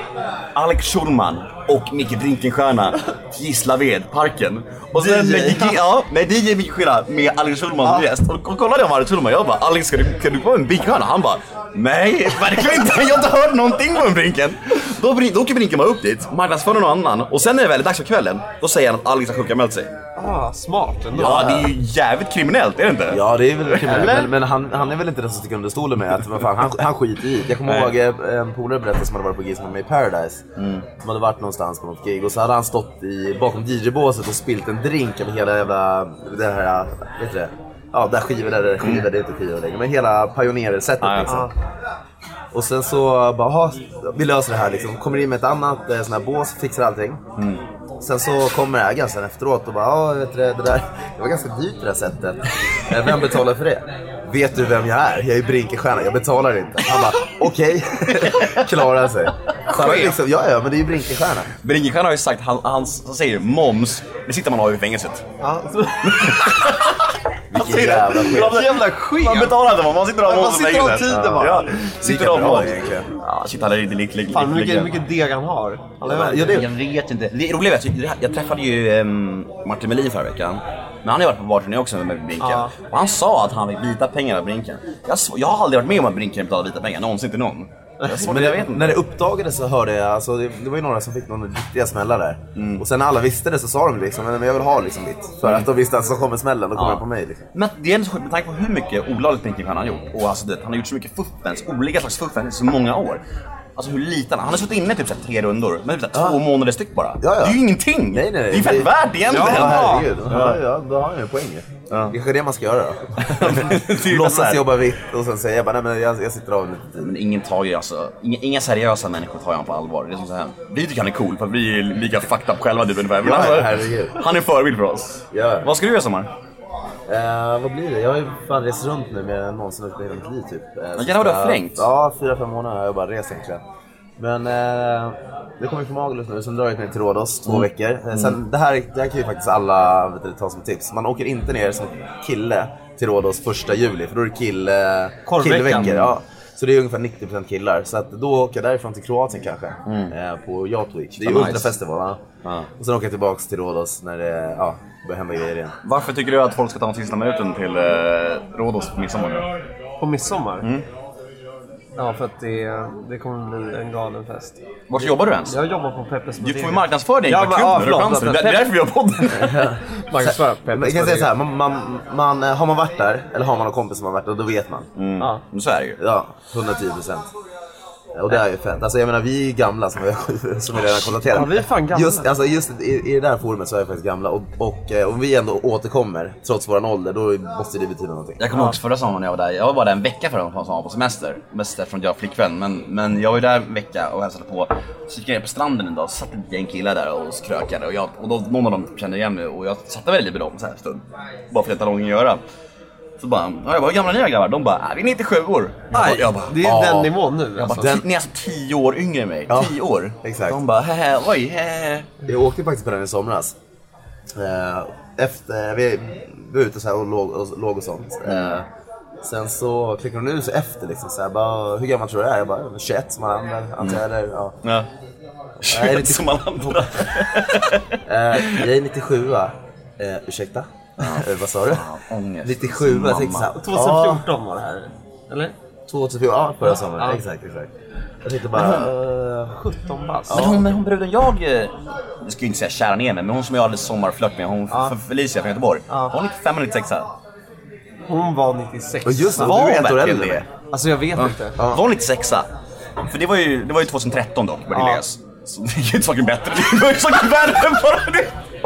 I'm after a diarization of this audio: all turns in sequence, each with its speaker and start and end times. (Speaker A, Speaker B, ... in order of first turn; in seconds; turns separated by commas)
Speaker A: 0.6-19.9, Speaker B: 5.0-5.8, Speaker B: 20.2-21.6, Speaker A: 21.1-24.2, Speaker C: 21.2-21.7, Speaker C: 23.1-30.4, Speaker B: 23.9-24.3, Speaker A: 27.6-27.9, Speaker A: 30.6-30.9, Speaker C: 31.0-41.5, Speaker A: 38.8-39.1, Speaker A: 41.0-41.5, Speaker B: 41.3-41.5, Speaker C: 42.5-47.2, Speaker C: 48.0-61.5, Speaker A: 58.2-58.7, Speaker B: 59.7-60.1, Speaker A: 61.6-65.2, Speaker B: 65.4-66.8, Speaker A: 66.0-67.0, Speaker C: 67.5-68.6, Speaker A: 67.6-75.0, Speaker B: 67.6-69.6, Speaker B: 70.2-71.7, Speaker C: 71.1-73.1, Speaker B: 74.3-76.7, Speaker C: 76.0-76.7, Speaker A: 76.1-89.0, Speaker B: 82.4-82.7, Speaker C: 88.2-97.4, Speaker A: 92.6-92.8, Speaker A: 96.8-97.0, Speaker A: 97.5-103.2, Speaker A: 103.8-110.6, Speaker C: 106.1-106.4, Speaker C: 107.2-117.2, Speaker B: 109.3-110.1, Speaker A: 111.9-112.2, Speaker A: 113.2-114.8, Speaker A: 117.0-126.3, Speaker C: 123.2-124.2, Speaker C: 125.3-125.7, Speaker C: 127.1-133.6, Speaker A: 131.0-131.9, Speaker C: 134.2-152.2, Speaker A: 137.5-138.3, Speaker B: 145.3-146.1, Speaker A: 149.9-150.1, Speaker A: 151.2-151.7, Speaker C: 152.8-155.8, Speaker A: 155.8-159.5, Speaker B: 160.0-160.7, Speaker B: 162.0-168.7, Speaker A: 164.9-165.6, Speaker A: 166.4-169.7, Speaker C: 169.4-174.9, Speaker B: 170.0-171.3, Speaker A: 175.0-176.0, Speaker C: 176.0-177.3, Speaker C: 178.2-188.4, Speaker B: 181.2-182.3, Speaker A: 188.4-202.4, Speaker A: 203.2-206.9, Speaker B: 205.9-207.9, Speaker C: 206.6-207.1, Speaker A: 207.6-212.1, Speaker C: 207.8-208.1, Speaker C: 209.5-210.6, Speaker C: 212.3-213.6, Speaker C: 214.3-218.7, Speaker A: 218.3-218.6, Speaker C: 219.2-224.6, Speaker C: 225.6-226.9, Speaker A: 225.6-228.7, Speaker C: 228.1-231.8, Speaker A: 231.0-233.5, Speaker C: 232.4-234.2, Speaker B: 233.5-235.5, Speaker C: 235.9-237.7, Speaker B: 236.7-237.2, Speaker C: 238.2-239.5, Speaker A: 238.5-238.9, Speaker B: 239.5-240.6, Speaker C: 240.3-240.7, Speaker A: 240.3-247.1, Speaker B: 244.7-244.9, Speaker B: 245.9-246.2, Speaker B: 248.1-249.6, Speaker C: 249.1-250.4, Speaker A: 249.4-250.4, Speaker B: 250.7-251.6, Speaker A: 251.2-252.5, Speaker C: 251.6-251.8, Speaker A: 253.0-258.4, Speaker B: 254.7-255.0